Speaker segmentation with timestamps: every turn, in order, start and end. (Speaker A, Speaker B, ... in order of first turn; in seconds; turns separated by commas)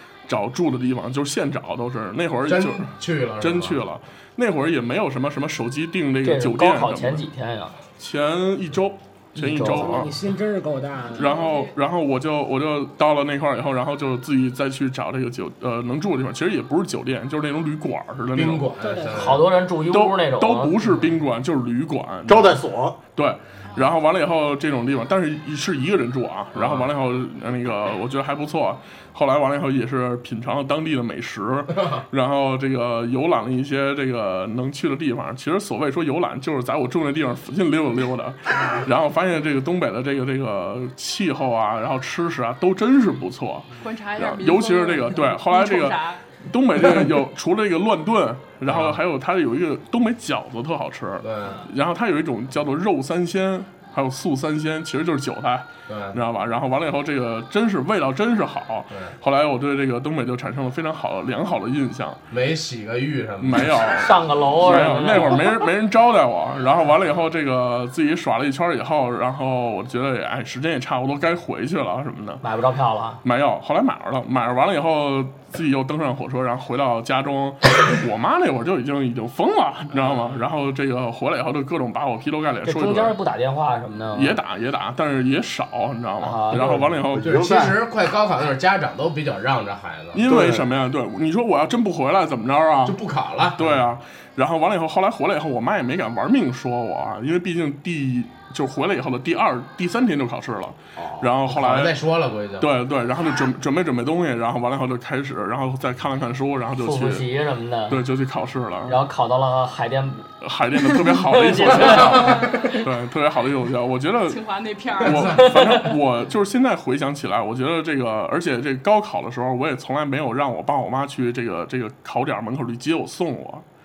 Speaker A: 0.3-7.2, Speaker B: 2.5-3.8, Speaker C: 6.2-7.8, Speaker A: 8.0-10.1, Speaker C: 9.4-10.1, Speaker D: 9.6-11.3, Speaker E: 11.1-11.8, Speaker A: 11.1-18.7, Speaker B: 18.4-19.4, Speaker D: 18.8-19.5, Speaker C: 19.1-20.8, Speaker A: 19.9-22.6, Speaker F: 22.3-23.0, Speaker A: 23.1-62.2, Speaker B: 26.6-26.9, Speaker B: 31.7-32.0, Speaker E: 43.8-46.2, Speaker B: 48.6-49.0, Speaker B: 51.2-51.7, Speaker B: 55.9-56.2, Speaker B: 62.3-63.8, Speaker A: 63.4-72.4, Speaker C: 63.8-65.7, Speaker C: 72.4-73.2, Speaker A: 73.2-83.2, Speaker C: 82.7-84.4, Speaker A: 84.1-87.3, Speaker C: 86.2-86.9, Speaker F: 87.0-87.8, Speaker B: 87.2-90.2, Speaker A: 90.1-93.0, Speaker F: 90.3-90.7, Speaker B: 92.9-93.8, Speaker A: 93.5-102.0, Speaker F: 101.0-101.2, Speaker B: 101.5-102.7, Speaker A: 102.6-107.3, Speaker C: 106.8-108.0, Speaker A: 107.9-109.0, Speaker C: 108.9-112.8, Speaker A: 110.3-114.4, Speaker E: 112.2-112.7, Speaker E: 114.3-115.4, Speaker A: 114.9-123.6, Speaker B: 115.1-115.4, Speaker C: 115.3-115.9